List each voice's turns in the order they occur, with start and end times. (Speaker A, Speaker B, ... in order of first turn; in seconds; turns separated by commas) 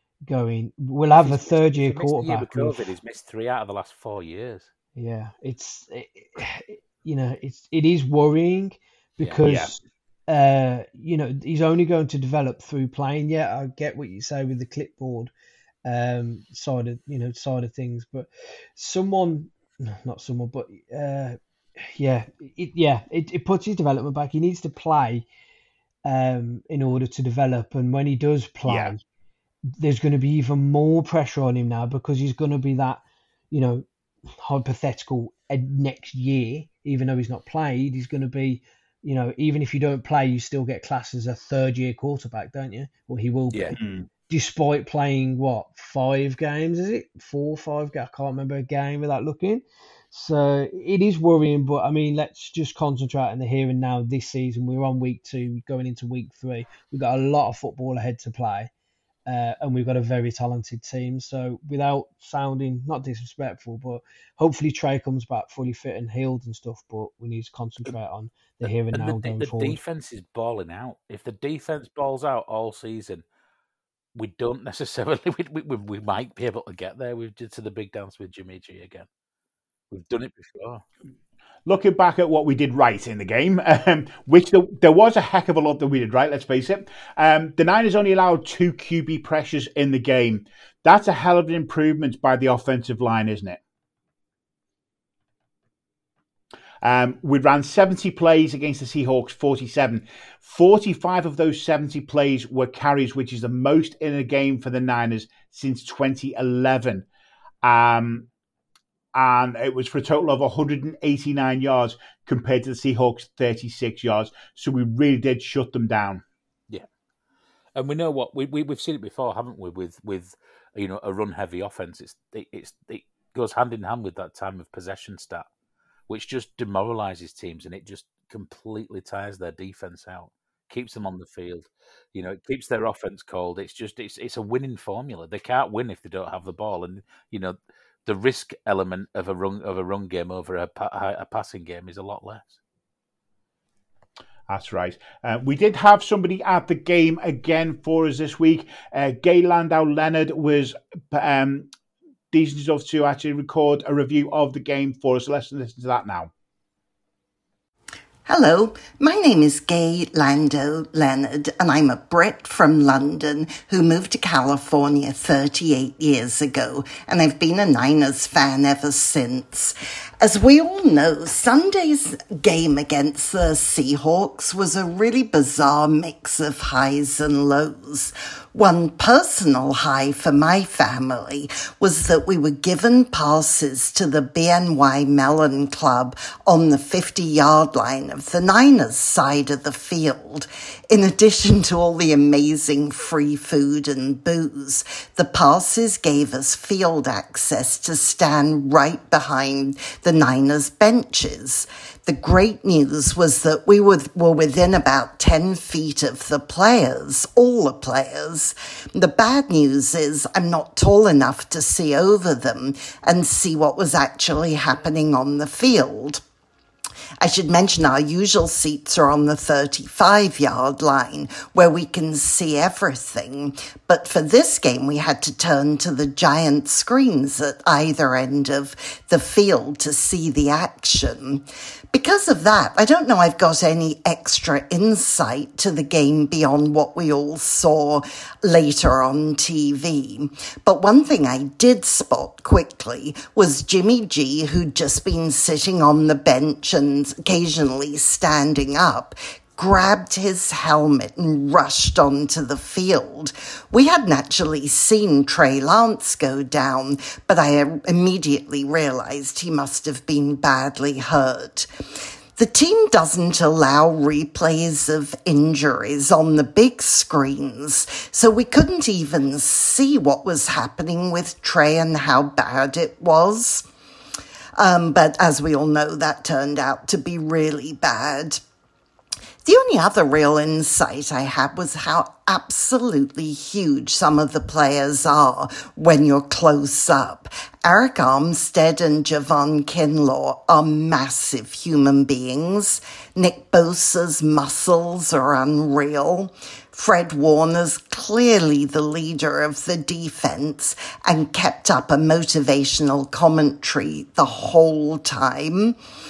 Speaker A: 0.3-2.9, Speaker B: 1.1-4.7, Speaker A: 5.0-15.3, Speaker C: 9.4-9.7, Speaker A: 15.8-25.2, Speaker A: 26.1-29.0, Speaker C: 28.7-28.9, Speaker A: 29.7-43.8, Speaker B: 43.5-43.8, Speaker C: 43.8-44.0, Speaker A: 44.3-58.7, Speaker A: 59.3-69.8, Speaker B: 68.7-73.2, Speaker B: 74.1-79.1, Speaker B: 79.9-80.8, Speaker C: 81.7-93.6, Speaker C: 96.8-107.0, Speaker C: 107.6-108.3, Speaker C: 109.1-116.2, Speaker B: 117.8-125.5, Speaker B: 126.1-142.6, Speaker C: 144.5-151.7, Speaker C: 152.3-156.3, Speaker D: 158.3-216.2, Speaker D: 217.2-261.7, Speaker D: 262.4-273.6, Speaker D: 274.6-278.4, Speaker D: 279.4-305.8